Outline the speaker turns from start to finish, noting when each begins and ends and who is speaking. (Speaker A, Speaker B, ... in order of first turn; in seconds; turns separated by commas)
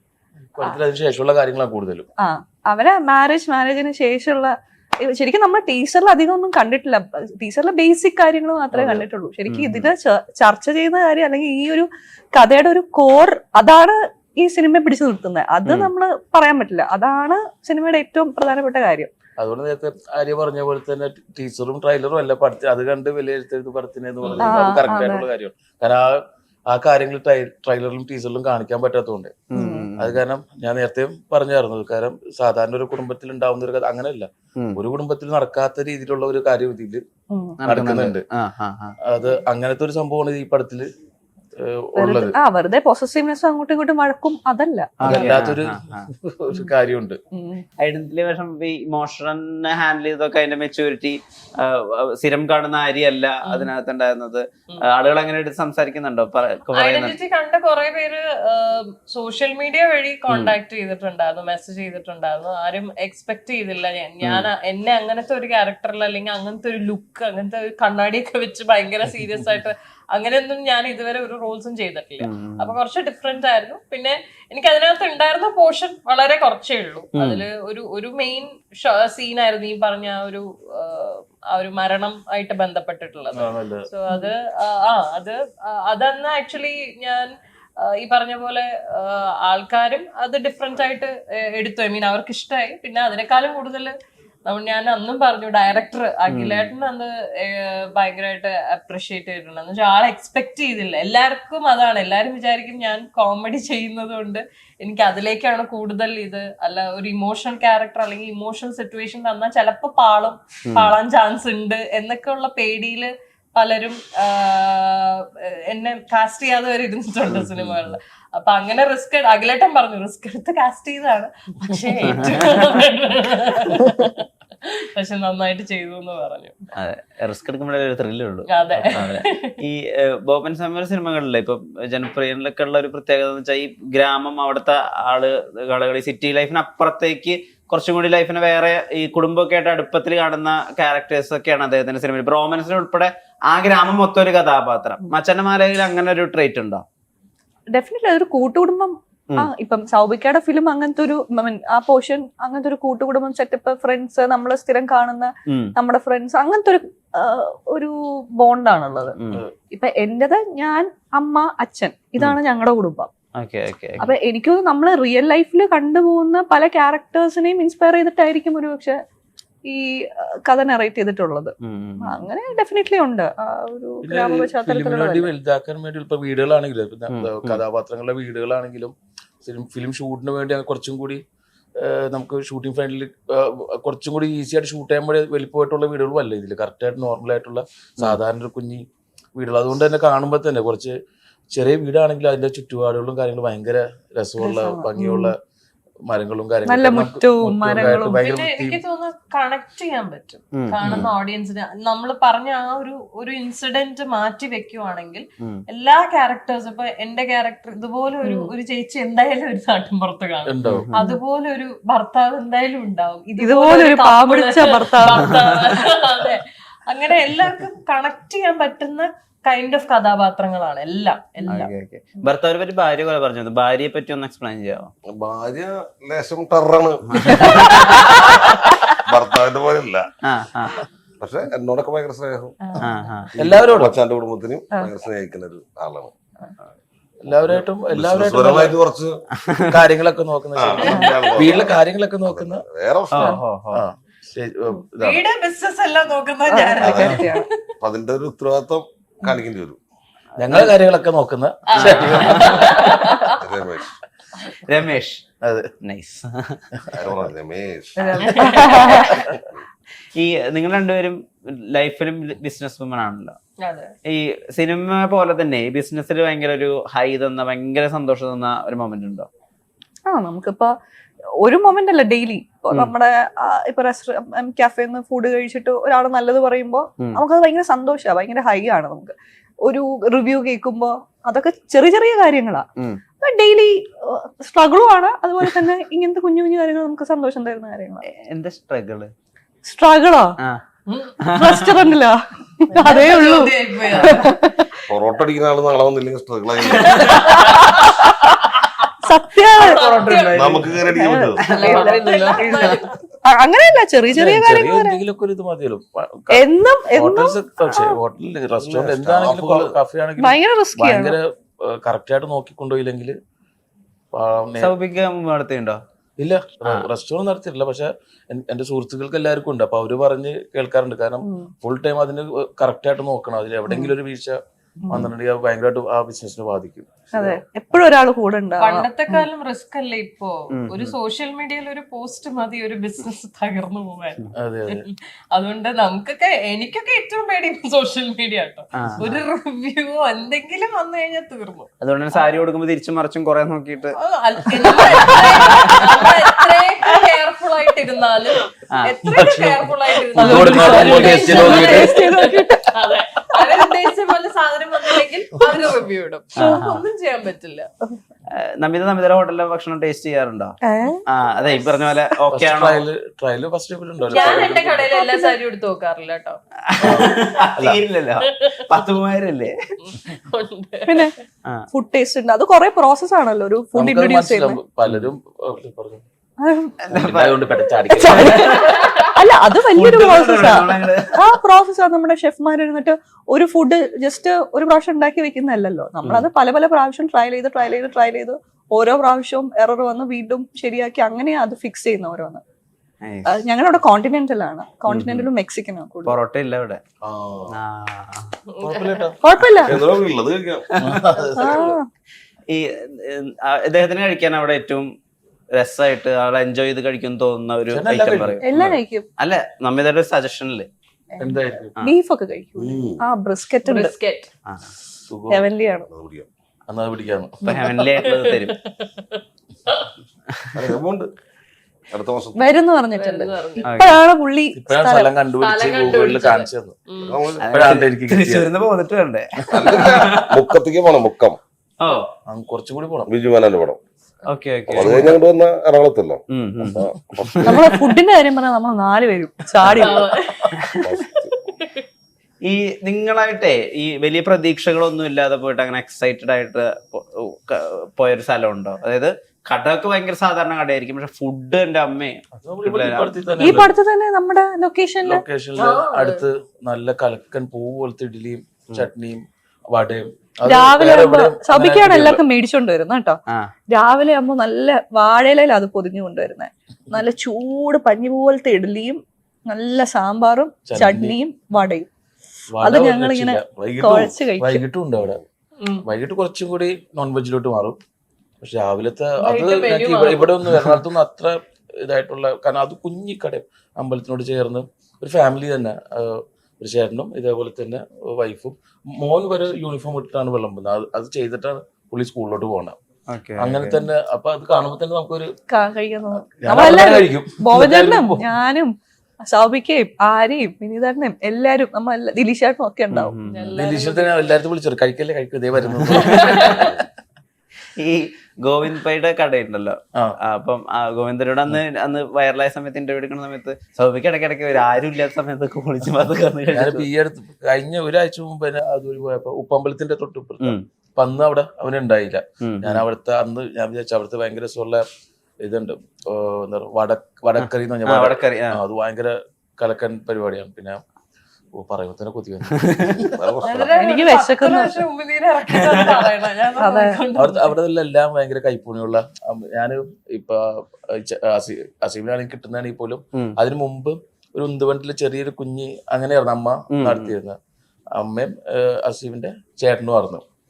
Speaker A: 0.5-2.1, Speaker B: 2.2-19.1, Speaker C: 9.5-9.9, Speaker C: 15.6-15.9, Speaker A: 19.4-29.4, Speaker D: 24.2-24.8, Speaker B: 24.4-25.2, Speaker C: 29.5-30.2, Speaker B: 29.5-29.9, Speaker A: 30.0-37.0, Speaker B: 37.3-37.6, Speaker C: 37.6-39.0, Speaker A: 37.6-38.2, Speaker A: 39.0-40.9, Speaker A: 41.5-42.4, Speaker B: 42.0-45.4, Speaker C: 45.0-46.1, Speaker A: 45.0-47.2, Speaker B: 47.3-47.6, Speaker C: 47.8-57.1, Speaker E: 56.7-93.9, Speaker C: 64.2-64.5, Speaker C: 72.2-72.8, Speaker C: 77.2-77.4, Speaker A: 83.3-83.9, Speaker E: 94.5-126.6, Speaker C: 96.3-96.7, Speaker C: 117.3-117.8, Speaker C: 122.1-122.5, Speaker C: 126.7-129.0, Speaker E: 128.4-129.6, Speaker A: 128.7-129.2, Speaker C: 129.6-146.8, Speaker B: 147.7-159.2, Speaker C: 155.5-155.7, Speaker C: 159.2-159.4, Speaker B: 159.7-163.1, Speaker C: 163.3-164.1, Speaker B: 164.0-169.0, Speaker B: 169.7-175.3, Speaker C: 171.6-172.2, Speaker A: 174.0-181.2, Speaker C: 177.1-177.6, Speaker A: 181.8-188.8, Speaker A: 189.3-190.9, Speaker A: 191.5-195.3, Speaker B: 194.4-195.3, Speaker A: 196.1-198.8, Speaker B: 196.7-198.2, Speaker E: 198.1-221.7, Speaker C: 200.5-201.1, Speaker B: 208.2-208.5, Speaker A: 210.4-210.8, Speaker C: 210.7-211.0, Speaker B: 210.9-211.2, Speaker B: 213.4-215.3, Speaker C: 215.3-215.8, Speaker C: 221.5-224.9, Speaker D: 225.1-230.1, Speaker C: 227.1-227.8, Speaker B: 227.3-228.1, Speaker C: 230.2-230.8, Speaker D: 231.2-232.6, Speaker E: 232.6-233.3, Speaker C: 232.8-233.3, Speaker D: 233.3-236.1, Speaker A: 233.4-234.0, Speaker A: 237.2-238.7, Speaker D: 237.3-239.2, Speaker C: 239.4-239.7, Speaker A: 239.7-242.6, Speaker D: 240.6-243.4, Speaker B: 240.8-241.3, Speaker E: 240.9-241.2, Speaker C: 243.1-243.8, Speaker A: 243.7-245.2, Speaker E: 245.0-247.7, Speaker B: 246.5-247.4, Speaker D: 246.8-247.2, Speaker D: 247.8-249.8, Speaker A: 250.4-253.1, Speaker E: 251.7-253.4, Speaker C: 251.8-252.8, Speaker D: 253.3-254.0, Speaker C: 254.6-255.2, Speaker A: 255.4-255.7, Speaker C: 255.8-256.6, Speaker D: 256.9-258.6, Speaker B: 258.0-259.1, Speaker E: 258.2-258.8, Speaker C: 258.8-259.0, Speaker A: 259.1-259.4, Speaker C: 260.1-263.4, Speaker E: 263.6-263.9, Speaker C: 264.1-269.3, Speaker B: 270.1-270.7, Speaker B: 271.4-282.7, Speaker B: 283.2-288.0, Speaker C: 288.1-289.1, Speaker B: 289.6-290.4, Speaker E: 290.9-291.2, Speaker C: 291.2-291.8, Speaker B: 291.3-294.9, Speaker E: 292.7-294.4, Speaker D: 294.9-297.4, Speaker B: 296.7-298.4, Speaker E: 296.8-298.7, Speaker B: 299.0-300.1, Speaker E: 299.5-300.7, Speaker C: 299.6-300.8, Speaker D: 300.3-301.4, Speaker B: 300.9-305.0, Speaker E: 301.4-303.0, Speaker C: 301.4-302.8, Speaker A: 304.1-313.2, Speaker B: 306.3-307.9, Speaker D: 308.6-309.7, Speaker B: 310.2-311.1, Speaker A: 314.1-314.7, Speaker C: 314.6-315.8, Speaker A: 316.2-324.4, Speaker B: 321.2-321.5, Speaker B: 323.7-323.9, Speaker B: 324.8-325.1, Speaker A: 324.9-327.4, Speaker B: 327.1-329.3, Speaker E: 328.6-341.7, Speaker C: 330.5-330.9, Speaker A: 334.3-334.9, Speaker C: 338.8-339.2, Speaker C: 341.8-343.9, Speaker E: 343.9-357.7, Speaker C: 344.7-346.1, Speaker C: 348.7-349.0, Speaker A: 349.1-351.9, Speaker B: 350.1-353.8, Speaker B: 354.8-355.7, Speaker C: 356.4-356.8, Speaker B: 356.4-356.6, Speaker C: 358.4-362.8, Speaker B: 360.6-361.0, Speaker A: 362.3-364.9, Speaker B: 364.1-365.4, Speaker E: 364.1-366.4, Speaker C: 366.7-369.5, Speaker A: 366.8-367.8, Speaker E: 368.2-368.7, Speaker E: 369.8-371.1, Speaker B: 370.9-371.1, Speaker B: 371.7-374.6, Speaker A: 373.7-376.0, Speaker B: 376.4-376.9, Speaker C: 376.9-377.4, Speaker A: 376.9-378.5, Speaker B: 377.9-392.4, Speaker C: 378.0-378.8, Speaker E: 378.6-379.1, Speaker C: 379.7-381.2, Speaker C: 386.0-386.3, Speaker C: 393.0-393.4, Speaker B: 393.2-396.2, Speaker C: 394.9-395.3, Speaker C: 396.0-396.8, Speaker D: 397.0-397.6, Speaker C: 397.5-398.3, Speaker E: 398.5-399.1, Speaker A: 398.6-399.2, Speaker B: 399.2-399.8, Speaker D: 399.6-400.7, Speaker C: 400.7-401.0, Speaker A: 400.8-401.7, Speaker B: 401.3-401.9, Speaker C: 402.5-404.9, Speaker C: 405.6-408.5, Speaker A: 407.7-408.7, Speaker B: 408.4-409.1, Speaker C: 409.2-410.7, Speaker E: 411.1-411.4, Speaker A: 411.2-411.8, Speaker B: 411.8-413.9, Speaker D: 412.6-413.0, Speaker E: 413.6-414.3, Speaker A: 415.1-415.5, Speaker B: 415.3-415.9, Speaker D: 415.9-416.3, Speaker A: 416.7-417.6, Speaker C: 417.4-418.5, Speaker E: 417.5-419.9, Speaker D: 420.5-421.1, Speaker D: 421.9-422.4, Speaker B: 422.4-425.1, Speaker E: 422.9-423.7, Speaker C: 423.6-424.0, Speaker A: 424.5-426.8, Speaker E: 425.4-427.3, Speaker D: 427.0-427.4, Speaker C: 427.4-430.4, Speaker A: 427.5-428.5, Speaker A: 429.5-430.2, Speaker D: 429.5-431.4, Speaker C: 431.8-432.1, Speaker A: 432.3-433.1, Speaker D: 433.1-433.8, Speaker C: 434.3-435.2, Speaker D: 434.7-437.6, Speaker A: 434.8-435.1, Speaker C: 436.3-437.8, Speaker B: 437.4-440.1, Speaker A: 439.6-440.1, Speaker E: 439.8-441.8, Speaker D: 440.8-441.4, Speaker C: 442.4-453.1, Speaker A: 452.3-453.7, Speaker B: 453.4-455.2, Speaker A: 455.0-462.2, Speaker E: 455.6-456.2, Speaker B: 460.4-463.2, Speaker B: 463.7-471.9, Speaker A: 470.7-471.1, Speaker A: 472.5-475.2, Speaker B: 472.6-474.6, Speaker A: 475.8-477.8, Speaker A: 478.4-492.8, Speaker E: 479.2-480.6, Speaker C: 493.1-493.8, Speaker A: 493.4-495.3, Speaker B: 495.5-503.1, Speaker A: 496.4-498.3, Speaker C: 502.9-503.5, Speaker E: 503.2-504.2, Speaker A: 503.6-506.7, Speaker C: 505.9-506.7, Speaker E: 506.1-506.7, Speaker C: 507.8-516.8, Speaker A: 516.5-524.8, Speaker C: 522.4-522.8, Speaker A: 525.4-530.8, Speaker C: 527.4-528.6, Speaker A: 531.5-533.1, Speaker C: 532.5-532.9, Speaker D: 533.0-533.8, Speaker E: 533.4-537.5, Speaker B: 533.7-534.8, Speaker C: 535.5-536.1, Speaker B: 536.6-537.0, Speaker A: 537.1-547.4, Speaker C: 546.7-547.1, Speaker A: 548.0-550.2